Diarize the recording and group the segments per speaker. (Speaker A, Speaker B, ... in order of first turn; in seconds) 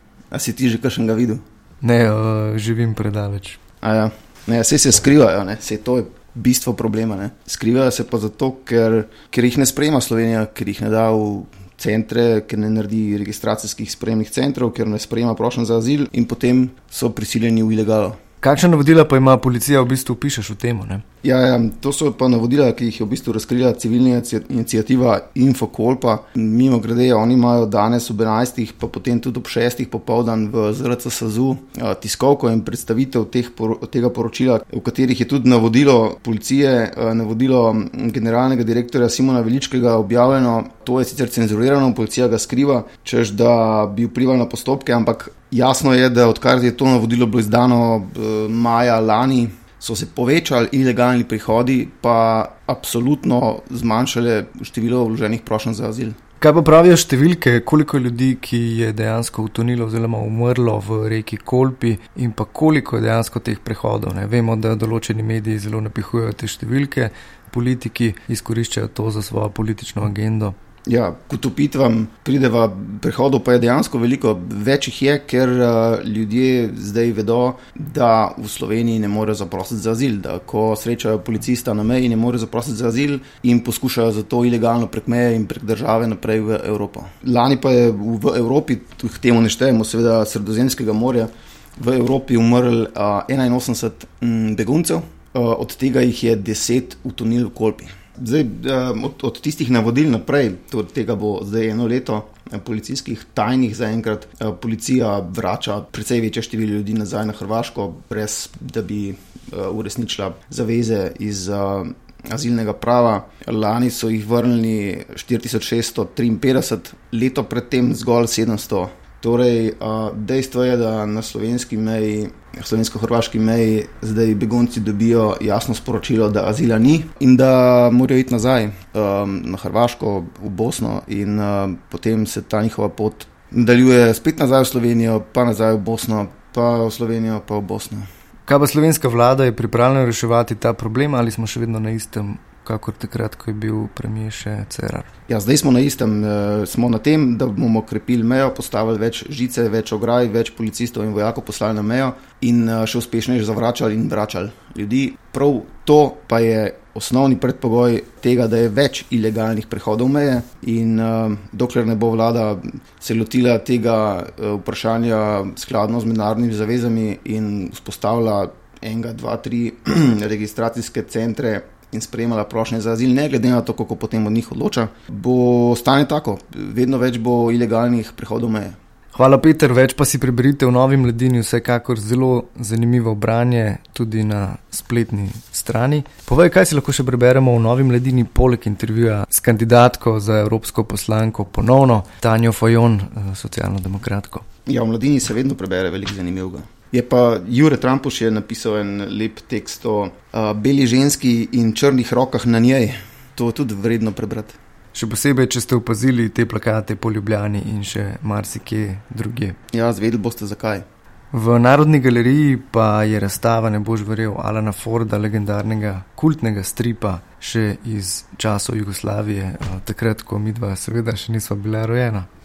Speaker A: 0.3-1.4, 3.8-18.2, 21.2-56.2, 70.9-138.1, 145.3-178.8, 194.7-204.6, 209.7-210.8
Speaker B: 1.8-3.6, 18.4-21.0, 56.4-70.5, 138.5-145.1, 179.1-194.4, 204.9-209.6, 211.3-222.3